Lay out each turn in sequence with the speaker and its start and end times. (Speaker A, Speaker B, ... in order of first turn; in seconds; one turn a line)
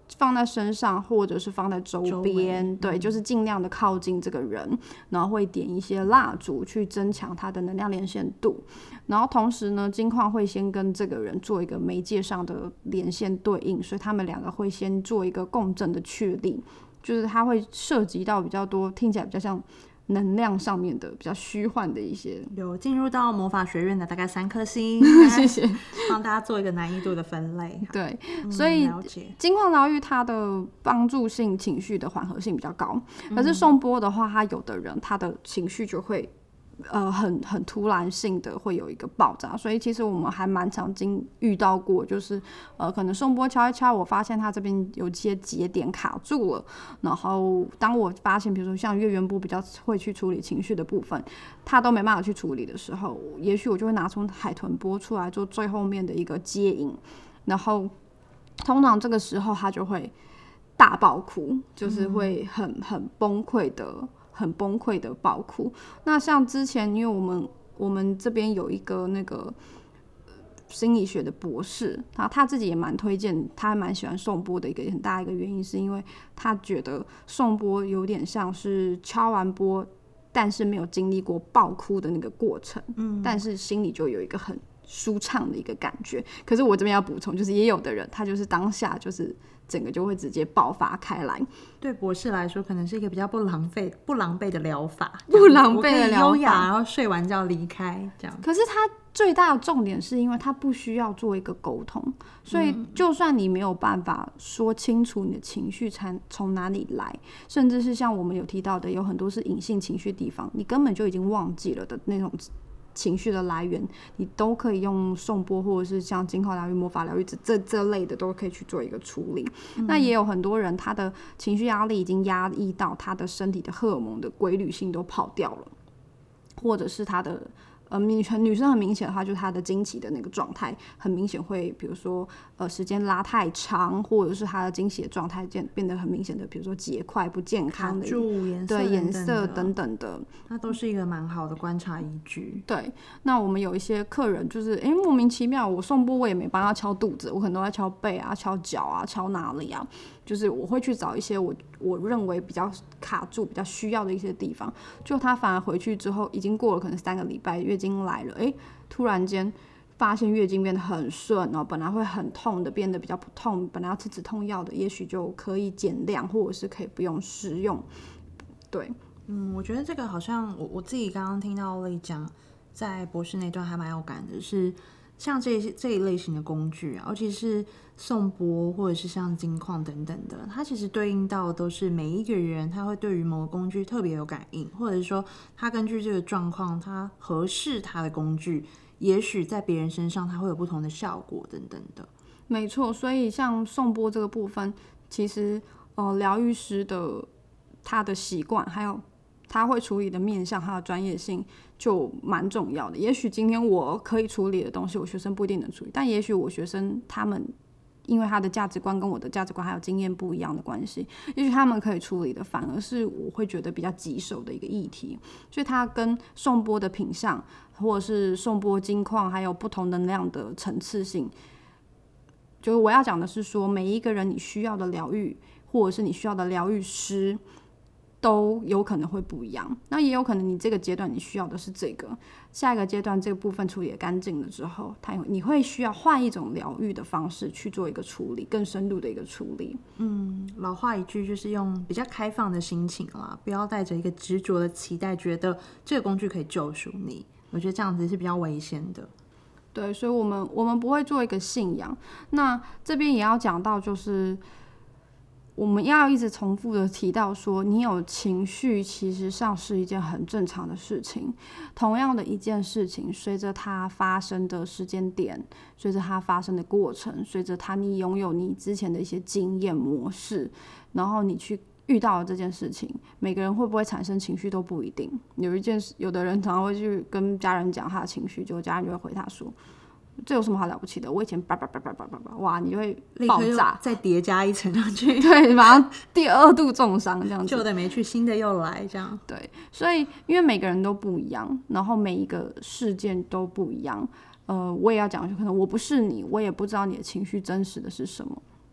Speaker A: 0.1-22.5
Speaker B: 2.0-3.1
Speaker B: 22.5-27.9
Speaker A: 25.0-26.1
Speaker A: 27.9-36.3
Speaker B: 28.4-29.4
Speaker B: 33.3-33.7
Speaker A: 36.9-57.9
Speaker A: 58.6-60.1
Speaker A: 60.8-69.5
Speaker B: 61.8-62.3
Speaker A: 70.7-91.5
Speaker B: 83.0-83.4
Speaker B: 91.8-98.4
Speaker A: 95.3-96.7
Speaker A: 98.4-125.7
Speaker B: 102.5-103.0
Speaker B: 119.8-120.1
Speaker A: 126.6-140.3
Speaker B: 137.7-139.7
Speaker B: 140.5-142.6
Speaker A: 142.7-167.8
Speaker B: 169.3-192.1
Speaker A: 192.5-197.3
Speaker A: 197.8-207.5
Speaker A: 208.1-221.3
Speaker A: 222.6-227.4
Speaker A: 228.2-239.8
Speaker B: 240.0-249.1
Speaker A: 249.7-254.4
Speaker A: 255.6-279.5
Speaker A: 280.2-283.8
Speaker B: 283.1-285.5
Speaker A: 285.2-287.6
Speaker B: 287.4-289.2
Speaker A: 289.3-298.4